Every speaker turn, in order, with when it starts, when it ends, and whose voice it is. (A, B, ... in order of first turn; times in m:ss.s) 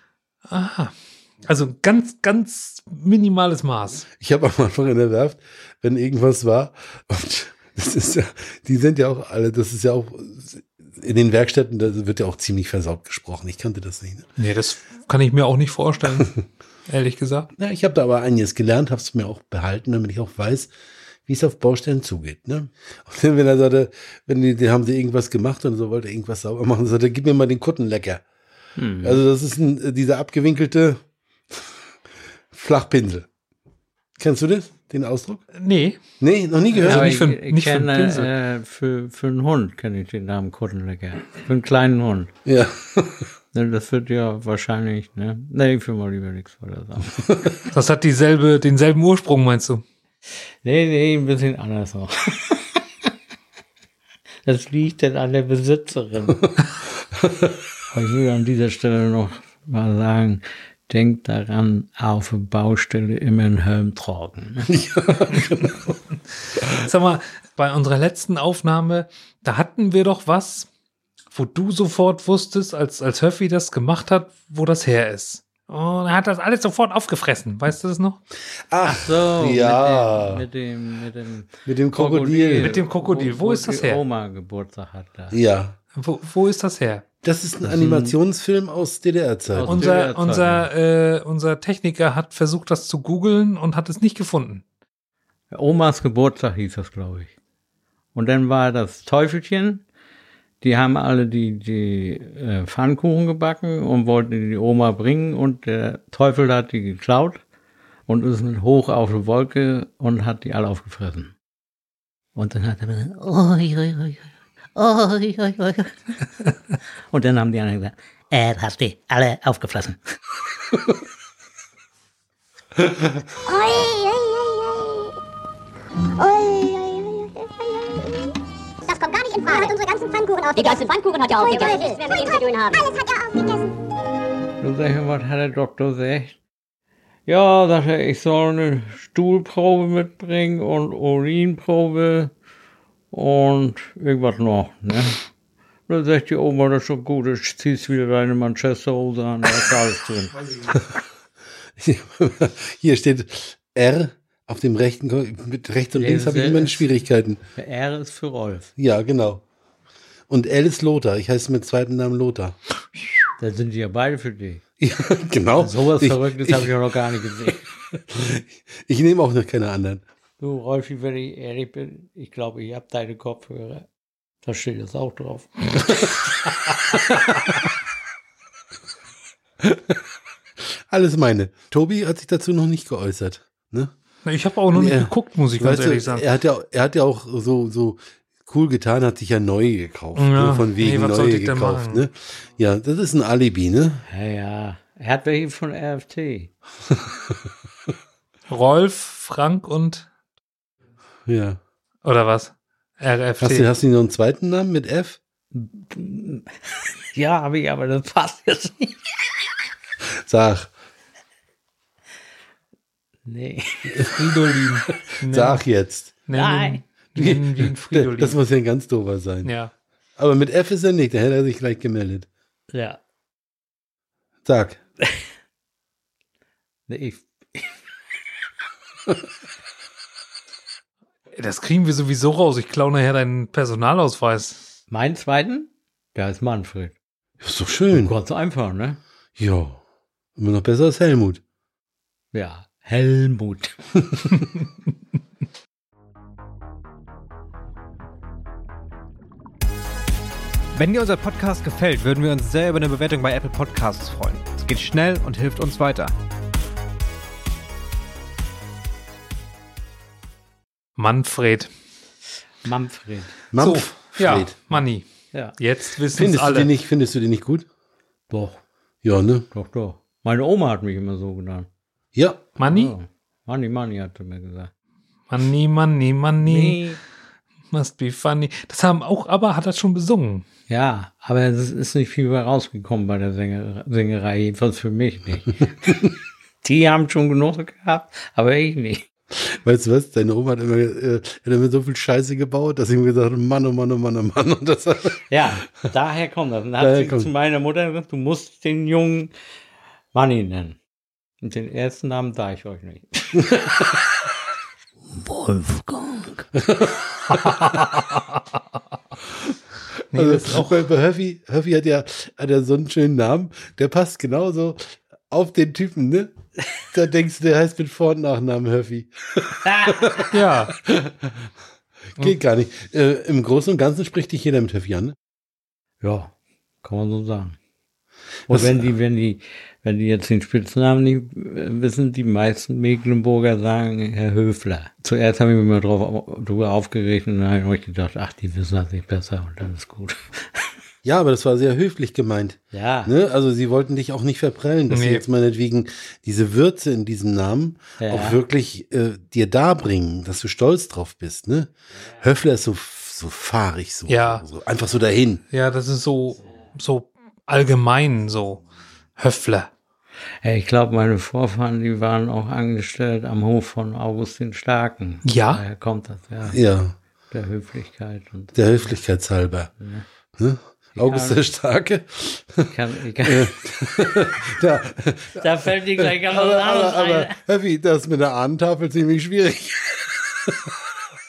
0:00.5-0:00.9 A
0:01.4-0:04.0 A
0:04.2-0:14.2 B
0:14.4-0:17.5 A
0:17.6-0:20.7 B
0:21.2-0:28.2 B
0:28.8-0:29.2 C
0:29.0-0:31.0 B
0:32.5-0:33.3 B
0:34.2-0:35.4 B
0:35.6-0:36.0 A
0:36.2-0:37.2 B
0:36.8-0:38.3 A
0:36.8-0:42.3 C
0:42.4-0:43.2 B
0:43.5-0:47.4 C
0:47.7-0:49.8 A
0:50.6-0:52.8 C
0:54.4-0:56.5 C
0:57.9-1:04.7 C
1:04.7-1:05.9 B
1:05.3-1:05.8 A
1:06.6-1:10.7 A
1:11.3-1:18.2 A
1:18.7-1:20.4 B
1:18.9-1:25.4 C
1:21.6-1:22.8 B
1:22.6-1:24.0 A
1:25.3-1:25.8 B
1:25.9-1:27.0 A
1:27.2-1:29.8 B
1:27.6-1:28.2 C
1:29.5-1:30.7 C
1:29.7-1:34.6 A
1:35.5-1:37.3 C
1:38.1-1:39.8 C
1:40.6-1:47.4 C
1:48.1-1:51.3 C
1:52.3-1:56.0 C
1:57.1-2:00.0 C
2:03.4-2:05.1 D
2:06.2-2:08.2 D
2:08.8-2:10.9 D
2:09.4-2:09.8 E
2:10.5-2:12.9 E
2:11.4-2:13.7 D
2:14.6-2:16.4 C
2:17.2-2:22.3 C
2:23.1-2:25.2 C
2:25.9-2:30.4 C
2:31.8-2:37.4 B
2:35.9-2:36.9 C
2:37.5-2:38.7 C
2:38.8-2:39.4 B
2:40.3-2:42.6 B
2:43.4-2:44.6 C
2:44.8-2:46.7 B
2:45.6-2:47.6 C
2:48.1-2:50.0 B
2:50.4-2:53.9 C
2:54.4-2:56.0 C
2:59.6-3:00.0 B
3:00.9-3:03.9 B
3:04.2-3:06.2 A
3:04.7-3:14.0 B
3:10.2-3:12.1 A
3:14.1-3:16.5 C
3:18.5-3:20.1 A
3:21.3-3:21.6 B
3:22.0-3:23.7 A
3:23.4-3:25.2 B
3:25.5-3:26.5 C
3:27.1-3:29.0 C
3:30.2-3:30.7 B
3:33.2-3:34.0 C
3:34.0-3:35.6 A
3:35.3-3:36.2 B
3:36.2-3:38.4 A
3:36.3-3:36.8 C
3:37.2-3:39.5 B
3:39.4-3:39.7 A
3:40.2-3:42.3 B
3:42.7-3:43.0 C
3:44.4-3:44.8 B
3:46.9-3:47.8 C
3:51.3-3:54.6 A
3:54.9-3:56.9 C
3:57.4-3:58.1 B
3:57.9-3:59.0 C
3:59.4-3:59.8 B
4:00.4-4:01.4 B
4:02.3-4:03.8 C
4:10.7-4:16.1 F
4:21.0-4:21.7 A
4:22.6-4:23.4 C
4:23.5-4:24.6 B
4:23.6-4:26.7 A
4:26.1-4:27.6 B
4:28.3-4:28.6 C
4:29.0-4:29.5 B
4:29.5-4:31.7 C
4:32.1-4:32.5 B
4:32.6-4:32.9 A
4:32.6-4:34.7 C
4:35.3-4:36.8 A
4:36.4-4:37.0 C
4:37.7-4:40.4 A
4:40.7-4:46.1 C
4:46.6-4:49.0 C
4:49.3-4:55.2 B
4:55.3-4:59.3 C
4:56.8-4:57.3 B
5:00.1-5:00.8 C
5:01.4-5:04.0 C
5:05.2-5:06.5 C
5:06.7-5:07.0 B
5:07.4-5:08.2 A
5:10.1-5:10.8 A
5:10.1-5:16.3 B
5:16.8-5:21.3 B
5:19.8-5:20.1 C
5:20.3-5:20.7 A
5:22.1-5:25.1 B
5:26.0-5:27.6 C
5:28.5-5:40.7 C
5:28.5-5:28.8 B
5:41.0-5:55.4 B
5:42.7-5:43.1 C
5:44.9-5:45.2 A
5:48.0-5:48.4 C
5:54.1-5:54.4 A
5:55.5-5:58.6 A
5:59.2-5:59.7 A
6:00.4-6:06.6 C
6:05.2-6:05.6 A
6:06.5-6:06.9 B
6:07.3-6:08.9 C
6:08.5-6:09.7 B
6:09.8-6:10.0 C
6:10.4-6:12.7 B
6:11.0-6:11.4 C
6:12.7-6:13.5 C
6:13.2-6:20.7 B
6:15.3-6:17.4 C